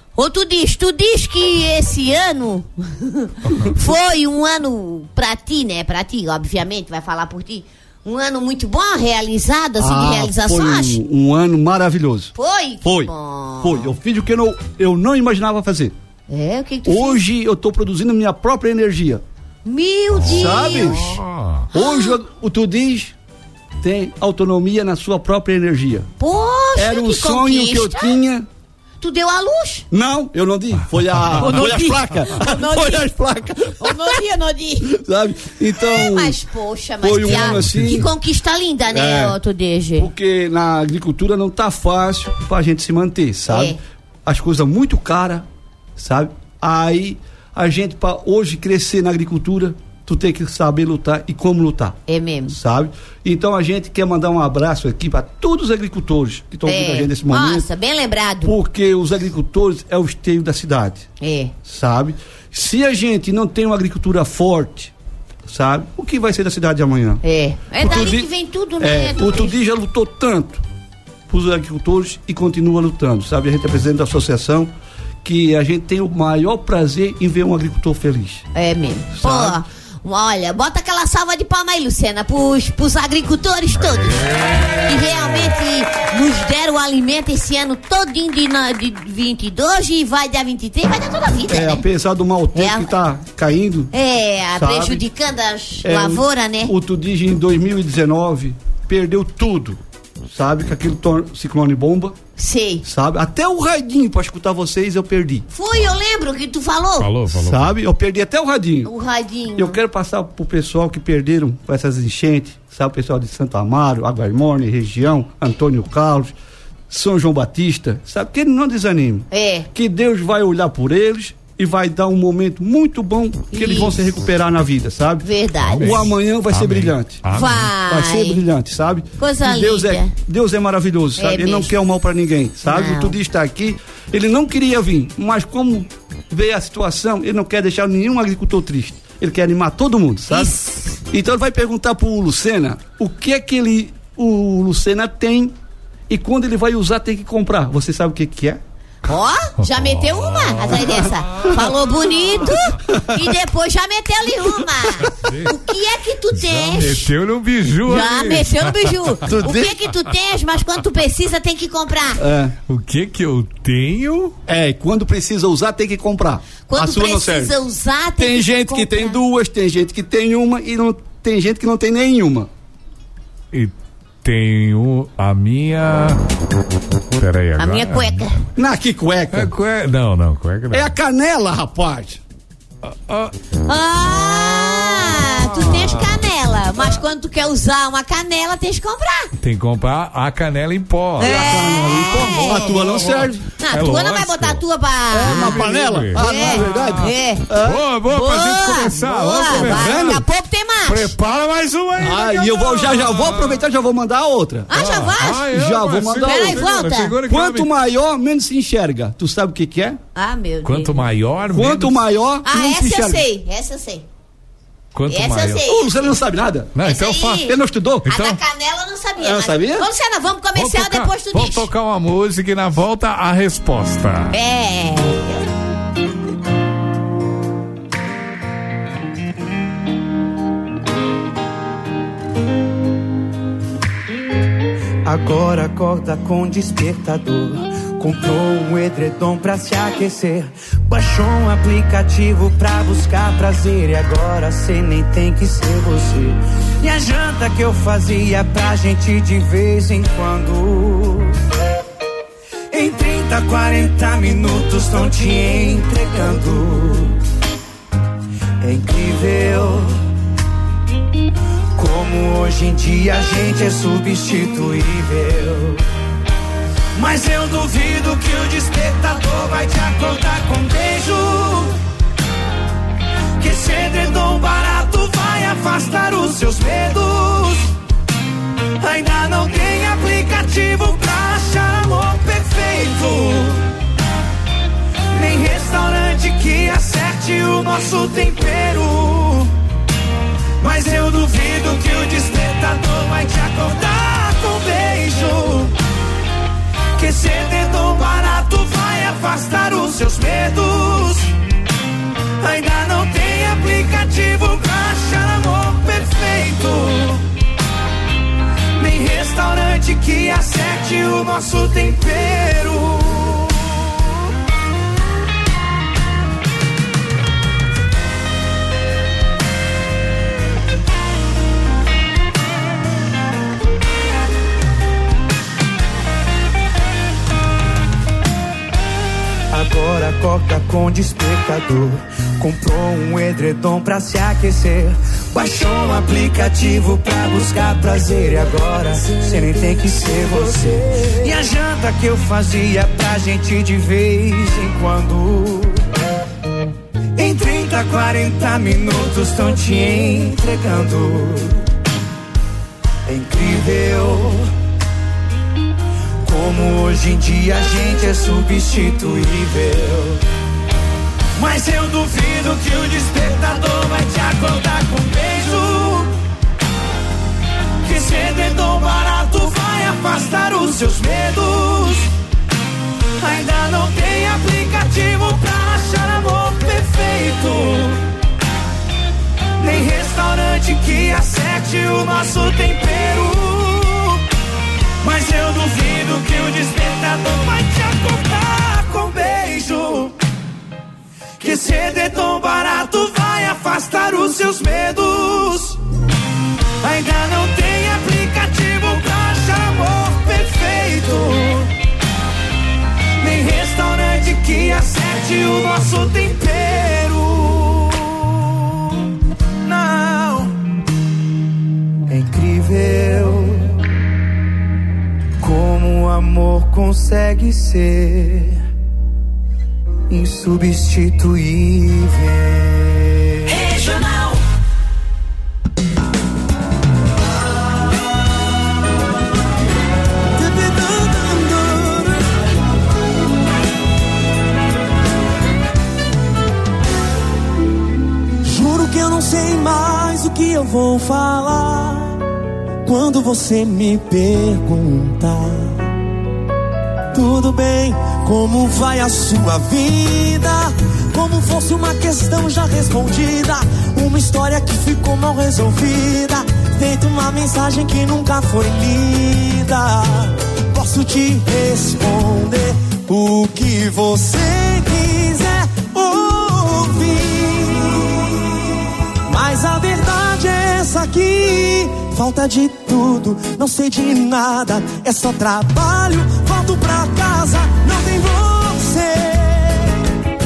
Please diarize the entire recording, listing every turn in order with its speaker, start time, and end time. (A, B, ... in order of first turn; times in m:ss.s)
0:00.2-0:11.0 A
0:09.8-0:12.3 B
0:12.4-0:13.9 A
0:12.8-0:15.9 B
0:16.3-0:17.2 A
0:16.8-0:19.2 B
0:19.6-0:21.1 A
0:20.1-0:21.7 C
0:20.2-0:21.2 B
0:21.7-0:23.1 B
0:21.7-0:22.2 A
0:23.8-0:26.1 B
0:26.2-0:28.2 A
0:26.8-0:28.5 B
0:29.0-0:29.8 A
0:29.9-0:33.9 B
0:31.4-0:33.1 A
0:33.8-0:35.0 A
0:34.9-0:36.4 B
0:35.9-0:40.1 A
0:37.0-0:38.1 B
0:37.4-0:38.0 C
0:38.9-0:39.4 B
0:40.0-0:57.7 B
0:43.5-0:43.8 A
0:52.1-0:52.6 A
0:56.7-0:58.6 A
0:58.4-1:01.1 B
1:01.2-1:01.5 A
1:01.6-1:04.9 B
1:05.5-1:07.2 B
1:07.2-1:09.6 A
1:07.8-1:08.3 B
1:08.8-1:10.6 B
1:11.3-1:14.7 B
1:15.2-1:18.5 B
1:18.5-1:31.8 A
1:19.2-1:19.6 B
1:23.8-1:25.3 C
1:31.5-1:33.9 B
1:32.6-1:32.9 A
1:33.9-1:36.7 A
1:34.6-1:35.0 B
1:35.8-1:42.2 B
1:42.4-1:42.8 A
1:42.8-1:45.4 B
1:45.5-1:47.1 A
1:47.0-1:47.8 C
1:47.3-1:48.9 B
1:48.8-1:49.8 A
1:49.6-1:56.3 B
1:56.9-2:05.3 B
1:59.3-1:59.7 A
2:03.5-2:04.0 A
2:05.2-2:06.1 A
2:05.6-2:07.8 C
2:05.8-2:07.2 B
2:07.3-2:08.4 A
2:07.8-2:20.6 B
2:09.2-2:10.1 A
2:11.2-2:11.7 A
2:12.7-2:13.2 A
2:20.3-2:21.0 A
2:21.1-2:25.5 B
2:26.1-2:28.6 B
2:29.0-2:37.1 A
2:29.6-2:32.6 C
2:35.1-2:35.6 C
2:36.3-2:39.3 C
2:37.9-2:42.2 A
2:39.3-2:39.7 B
2:42.2-2:42.5 B
2:42.7-2:44.4 C
2:44.5-2:47.6 B
2:46.7-2:49.2 A
2:48.2-2:52.5 B
2:54.2-2:56.2 C
2:57.2-2:58.3 C
2:57.6-2:58.4 A
2:58.6-2:59.5 B
2:59.3-3:00.9 C
3:00.7-3:02.2 B
3:02.8-3:03.3 C
3:03.7-3:09.3 A
3:04.2-3:06.2 C
3:09.4-3:14.6 C
3:11.2-3:13.4 B
3:11.2-3:12.8 A
3:13.6-3:17.5 A
3:15.1-3:17.8 B
3:15.2-3:20.2 C
3:18.1-3:21.1 A
3:19.4-3:20.2 B
3:20.8-3:23.6 C
3:22.0-3:24.7 B
3:24.7-3:25.5 A
3:24.7-3:27.7 C
3:25.4-3:26.7 B
3:26.2-3:27.2 A
3:27.2-3:30.0 B
3:30.2-3:31.0 A
3:30.6-3:32.1 C
3:31.5-3:33.3 B
3:32.4-3:34.0 A
3:34.9-3:35.7 C
3:35.1-3:36.2 A
3:35.7-3:36.8 B
3:36.8-3:37.5 C
3:36.8-3:41.7 A
3:37.4-3:38.1 B
3:38.0-3:38.4 C
3:39.2-3:39.9 B
3:40.6-3:44.4 C
3:44.3-3:45.4 A
3:55.0-4:11.4 D
4:12.7-4:17.2 D
4:18.6-4:19.9 D
4:21.8-4:25.8 D
4:27.0-4:31.8 D
4:33.4-4:37.7 D
4:38.8-4:43.7 D
4:45.1-4:49.5 D
4:50.6-4:55.7 D
4:57.0-5:01.3 D
5:02.4-5:07.2 D
5:08.8-5:13.9 D
5:29.5-5:45.9 D
5:47.2-5:51.7 D
5:53.1-5:54.5 D
5:56.2-6:00.2 D
6:01.4-6:06.1 D
6:07.8-6:12.1 D
6:13.2-6:18.0 D
6:19.6-6:24.2 D
6:25.0-6:30.2 D
6:31.4-6:35.8 D
6:36.8-6:41.7 D
6:43.2-6:48.9 D
6:49.6-6:50.5 D
6:52.1-6:53.8 D
6:55.4-6:58.6 D
7:00.1-7:03.6 D
7:03.6-7:04.4 A
7:10.3-7:12.3 E
7:18.4-7:22.2 E
7:22.8-7:25.9 E
7:27.1-8:00.1 E